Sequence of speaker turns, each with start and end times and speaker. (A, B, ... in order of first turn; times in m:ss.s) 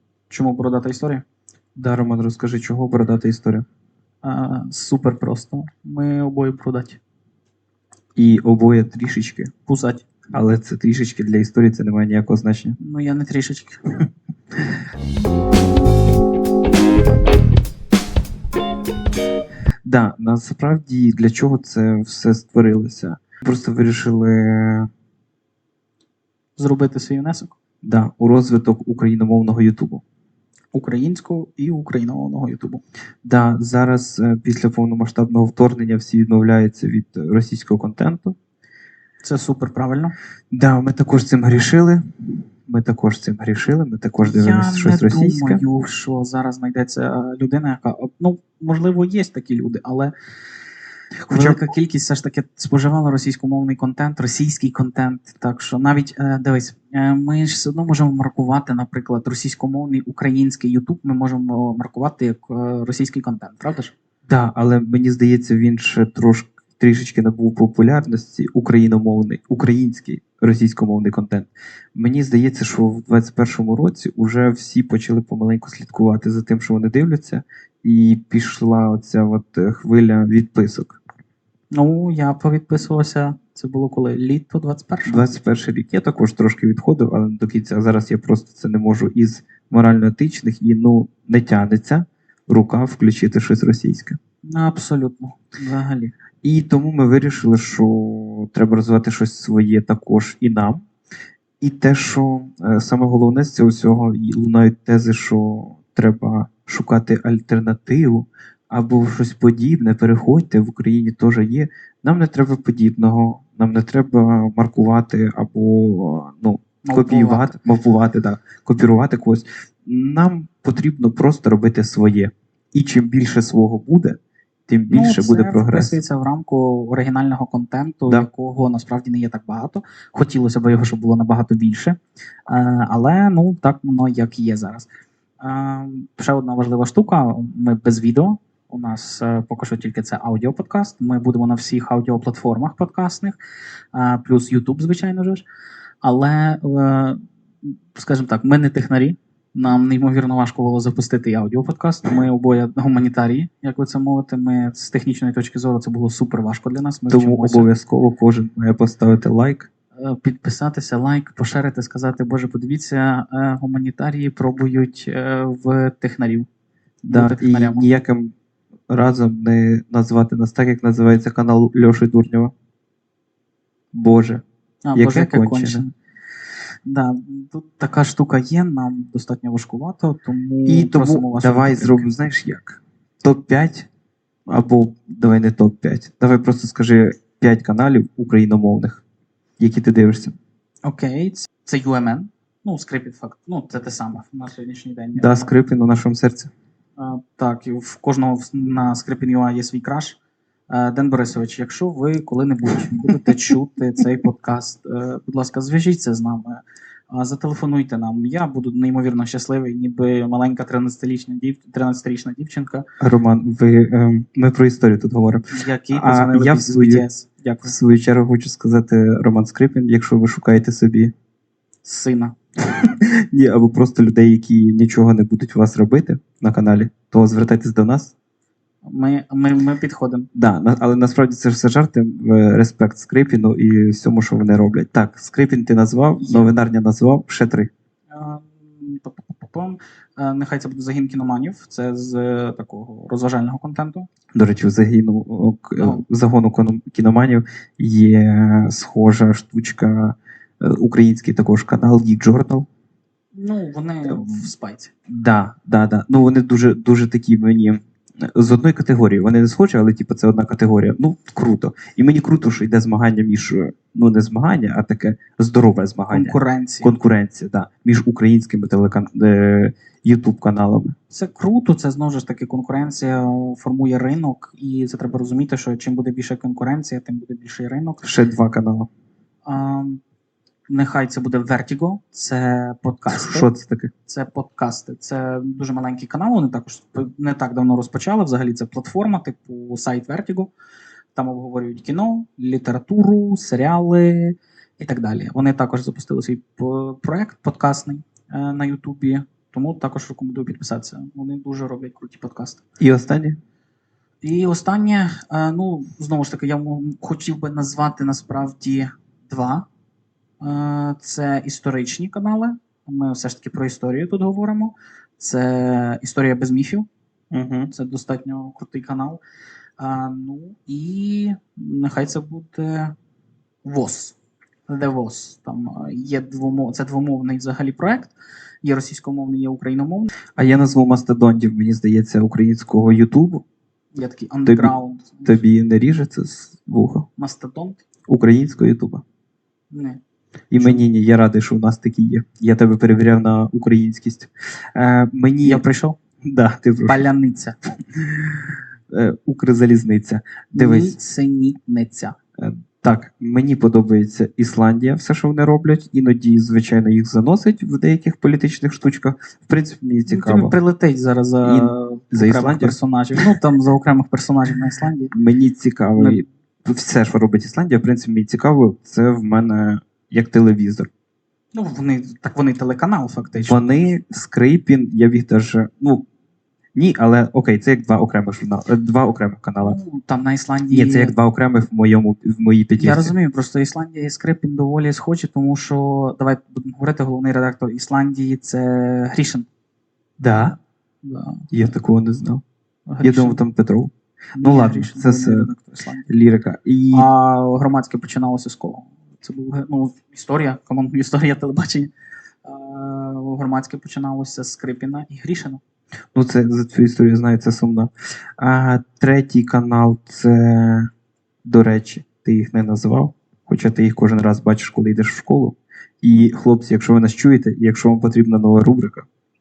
0:00.3-0:01.2 A
0:01.8-0:03.7 B
0:04.2-0:07.0 A
0:08.2-0:09.5 B
0:09.7-0:10.1 A
0:10.3-0:12.8 B
0:12.8-0:14.0 A
0:19.8-0:24.9 B
0:26.6-0:27.6 A
0:27.8-0:30.0 B
0:30.7-0:32.8 A
0:33.2-0:38.4 B
0:39.2-0:40.2 A
0:40.5-0:45.6 B
0:44.2-0:50.1 A
0:51.2-0:51.6 B
0:51.3-1:03.9 A
1:04.3-1:21.0 B
1:21.7-1:25.3 A
1:25.0-1:34.2 B
1:34.5-1:36.1 A
1:36.4-1:40.8 B
1:41.6-2:06.0 B
1:56.8-1:57.6 A
2:04.9-2:14.9 A
2:15.4-2:23.4 A
2:23.9-2:25.4 A
2:26.0-2:37.7 A
2:37.1-2:39.7 B
2:40.0-2:46.5 A
2:47.0-2:48.4 B
2:47.1-2:47.9 A
2:48.9-2:52.5 B
2:53.9-2:54.4 B
2:54.8-2:55.9 A
2:55.0-2:55.8 B
2:56.8-3:02.1 A
3:00.7-3:03.9 B
3:04.5-3:09.0 B
3:09.6-3:10.4 B
3:10.8-3:15.5 A
3:15.2-3:16.5 B
3:17.0-3:20.2 A
3:20.7-3:32.8 A
3:33.0-3:37.0 B
3:35.5-3:37.7 A
3:37.6-3:41.1 B
3:41.8-3:42.4 A
3:42.7-3:48.1 B
3:48.8-3:50.3 A
3:50.3-3:57.7 B
3:56.2-3:56.5 A
3:58.1-4:04.1 A
4:04.3-4:12.7 B
4:05.8-4:06.0 A
4:13.3-4:14.9 A
4:14.0-4:14.4 B
4:15.1-4:31.0 B
4:26.1-4:26.9 A
4:31.1-4:38.1 A
4:38.0-4:38.9 B
4:39.5-4:40.0 A
4:40.7-4:43.5 A
4:43.1-4:43.9 B
4:44.1-4:50.5 A
4:51.2-5:02.6 A
5:02.8-5:03.4 B
5:04.2-5:09.7 A
5:10.4-5:16.9 A
5:17.3-5:17.7 B
5:17.7-5:19.2 A
5:19.8-5:23.0 A
5:23.6-5:24.2 A
5:24.7-5:30.1 A
5:30.4-5:33.4 B
5:33.9-5:35.4 A
5:34.5-5:34.7 B
5:35.2-5:37.1 B
5:37.2-5:37.8 A
5:38.1-5:39.0 B
5:39.7-5:40.0 A
5:40.5-5:45.6 B
5:40.6-5:40.8 A
5:45.4-5:46.0 A
5:46.2-5:47.0 B
5:46.9-5:47.6 A
5:48.9-5:51.0 B
5:50.6-5:52.2 A
5:52.4-6:00.6 B
6:00.1-6:05.1 A
6:01.4-6:03.2 B
6:05.1-6:10.9 B
6:06.0-6:06.2 A
6:11.5-6:13.6 A
6:13.5-6:16.0 B
6:16.8-6:19.8 B
6:19.6-6:21.2 A
6:20.7-6:23.1 B
6:22.8-6:29.5 A
6:30.2-6:30.6 B
6:31.0-6:31.5 A
6:31.5-6:32.4 B
6:32.9-6:33.4 A
6:33.0-6:35.5 B
6:34.4-6:36.1 A
6:36.1-6:37.1 B
6:36.9-6:41.9 A
6:42.4-6:45.6 A
6:46.1-6:50.9 B
6:51.4-6:59.1 B